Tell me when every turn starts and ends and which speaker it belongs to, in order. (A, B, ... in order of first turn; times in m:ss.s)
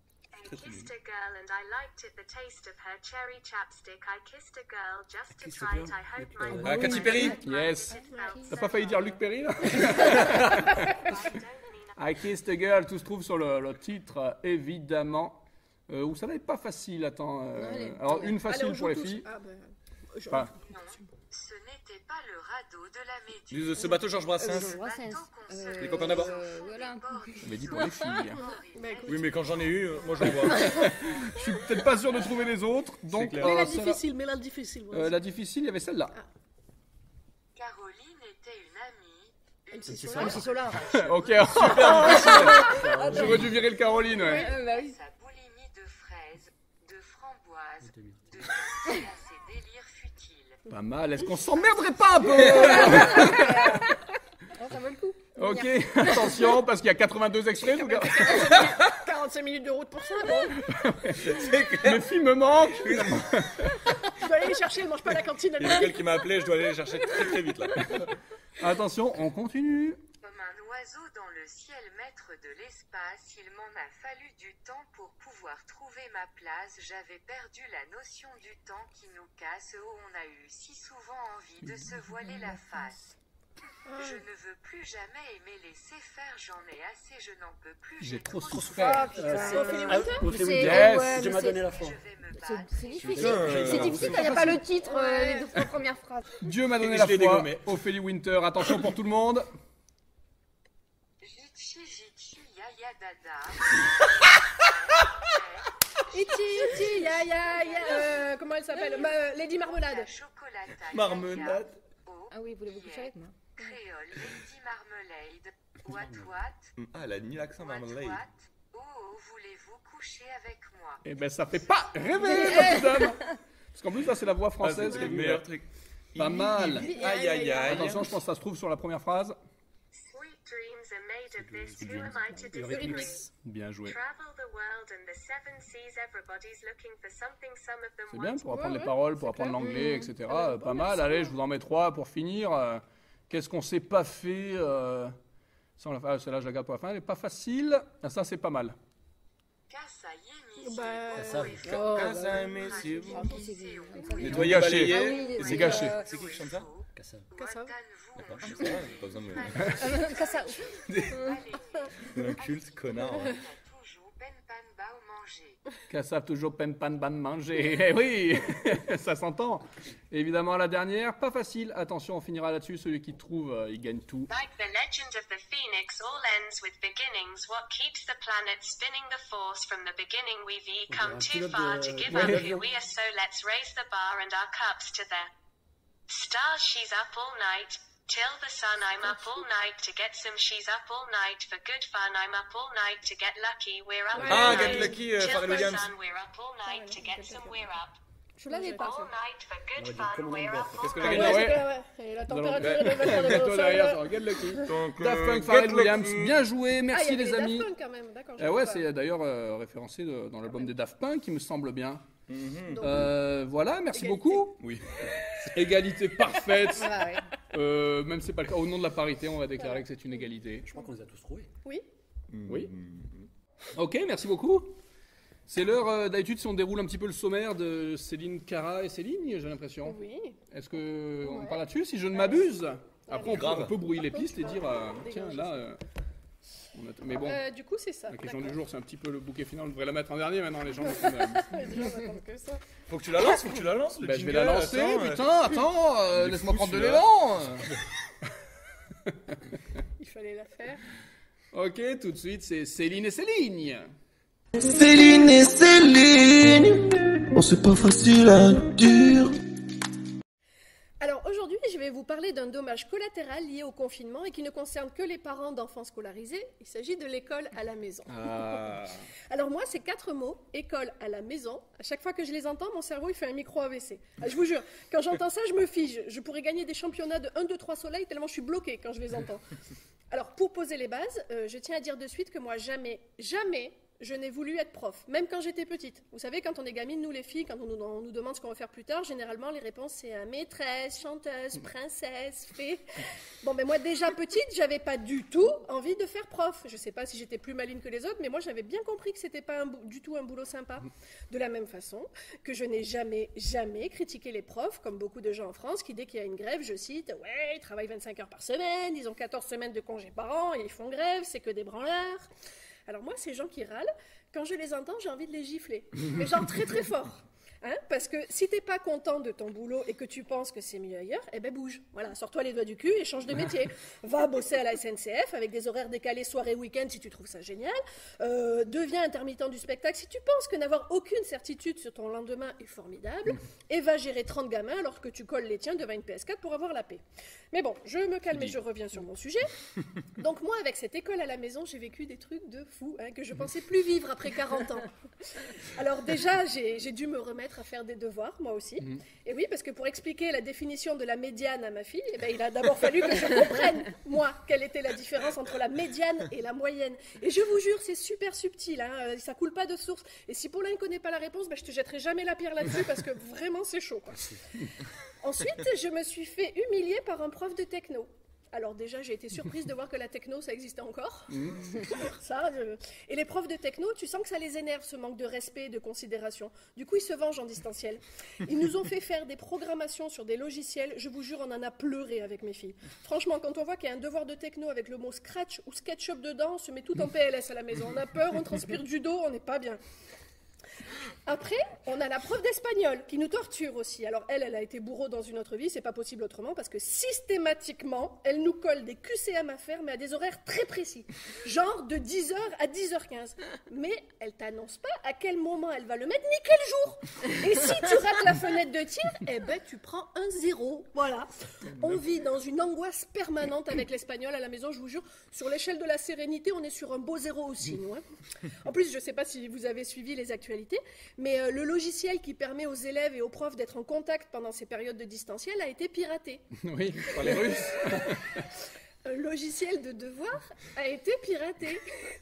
0:00.3-0:12.0 A
0:00.5-0:00.9 B
0:05.3-0:07.0 C
0:06.5-0:07.4 B
0:06.6-0:08.7 D
0:06.8-0:08.0 E
0:08.1-0:08.5 F
0:08.5-0:11.1 E
0:12.0-0:19.3 E
0:17.6-0:18.4 D
0:18.4-0:20.5 F
0:20.3-0:20.5 E
0:20.6-0:30.3 G
0:23.5-0:24.8 B
0:24.4-0:28.3 D
0:25.8-0:26.3 B
0:27.4-0:28.4 E
0:28.8-0:29.4 F
0:29.1-0:30.7 B
0:30.5-0:30.9 D
0:30.5-0:34.0 E
0:33.1-0:33.7 B
0:33.4-0:35.2 F
0:34.9-0:36.2 E
0:37.6-0:42.1 G
0:39.7-0:40.6 F
0:39.9-0:40.8 C
0:40.2-0:40.8 D
0:40.9-0:44.5 E
0:41.5-0:42.7 B
0:41.9-0:43.6 D
0:42.6-0:43.6 C
0:44.2-0:44.5 F
0:44.2-0:50.6 G
0:44.3-0:45.0 D
0:47.8-0:48.5 C
0:50.7-0:53.7 E
0:52.4-0:54.0 D
0:54.6-0:56.5 D
0:55.4-0:58.6 E
0:57.6-1:00.6 F
1:00.7-1:03.7 E
1:01.1-1:02.1 B
1:02.7-1:03.3 B
1:04.1-1:06.3 F
1:05.6-1:08.0 B
1:08.6-1:10.0 E
1:10.2-1:23.1 G
1:23.9-1:24.2 F
1:24.0-1:29.4 G
1:28.0-1:29.2 E
1:28.5-1:32.0 C
1:28.8-1:30.3 F
1:29.2-1:31.7 D
1:30.5-1:31.3 E
1:31.4-1:33.9 G
1:32.4-1:36.2 D
1:33.0-1:34.4 B
1:33.1-1:34.3 C
1:34.0-1:34.6 E
1:34.8-1:35.6 F
1:36.4-1:39.5 E
1:36.8-1:37.7 B
1:41.2-1:45.7 G
1:46.1-1:50.1 F
1:46.7-1:48.3 G
1:48.9-1:56.7 G
1:50.9-1:51.8 B
1:52.3-1:53.3 D
1:55.8-1:56.4 C
1:56.8-1:58.2 B
1:57.6-2:01.0 G
2:01.0-2:05.5 E
2:02.2-2:03.3 D
2:04.6-2:08.1 B
2:06.2-2:07.0 E
2:06.7-2:08.1 F
2:07.6-2:09.4 E
2:09.9-2:13.3 A
2:11.4-2:13.3 C
2:12.6-2:13.2 F
2:13.4-2:14.0 E
2:13.8-2:18.8 A
2:18.1-2:25.2 E
2:18.5-2:21.4 F
2:19.6-2:20.1 D
2:25.8-2:28.8 E
2:29.7-2:45.6 G
2:30.6-2:34.2 F
2:31.1-2:31.9 C
2:31.6-2:33.3 B
2:32.0-2:32.4 D
2:32.9-2:36.1 D
2:34.2-2:36.7 B
2:34.2-2:36.0 E
2:37.0-2:37.3 C
2:37.4-2:37.7 F
2:38.2-2:39.8 B
2:39.7-2:41.4 D
2:42.1-2:43.4 B
2:45.9-2:54.3 E
2:54.3-3:05.3 A
3:00.9-3:02.7 C
3:02.1-3:02.5 E
3:06.1-3:18.0 A
3:14.2-3:15.1 F
3:14.2-3:15.9 B
3:16.6-3:17.6 F
3:18.4-3:19.1 D
3:18.5-3:19.1 F
3:18.6-3:21.5 A
3:19.8-3:21.0 C
3:20.8-3:21.4 B
3:20.9-3:21.7 E
3:21.0-3:24.6 F
3:22.3-3:27.7 E
3:22.6-3:23.2 B
3:24.6-3:26.4 B
3:26.9-3:28.9 F
3:28.4-3:32.0 E
3:32.3-3:33.1 B
3:32.7-3:33.1 F
3:32.8-3:34.6 E
3:33.9-3:34.5 F
3:34.6-3:34.9 B
3:35.5-3:40.7 E
3:36.7-3:37.2 D
3:40.7-3:41.5 C
3:42.3-3:43.3 B
3:42.5-3:42.7 E
3:43.8-3:44.8 E
3:45.5-3:50.0 E
3:49.8-3:50.4 F
3:50.5-3:55.8 E
3:53.1-3:55.6 F
3:53.2-3:53.8 B
3:56.7-3:57.4 E
3:57.2-3:58.6 F
3:58.1-4:01.6 E
4:00.9-4:02.6 F
4:02.9-4:05.3 B
4:04.0-4:07.7 E
4:06.1-4:07.1 B
4:09.1-4:09.4 E
4:10.0-4:10.8 F
4:11.5-4:13.9 E
4:14.6-4:19.4 H
4:21.0-4:28.3 F
4:28.1-4:29.0 E
4:29.3-4:39.5 F
4:40.1-4:52.8 F
4:53.4-5:12.3 F
5:12.9-5:39.5 F
5:40.2-5:44.9 F
5:45.7-6:04.3 F
6:05.2-6:29.8 F
6:11.3-6:11.6 E
6:31.3-6:58.0 F
6:58.6-7:06.4 F
7:06.6-7:08.4 E
7:07.2-7:08.0 F
7:09.0-7:11.9 F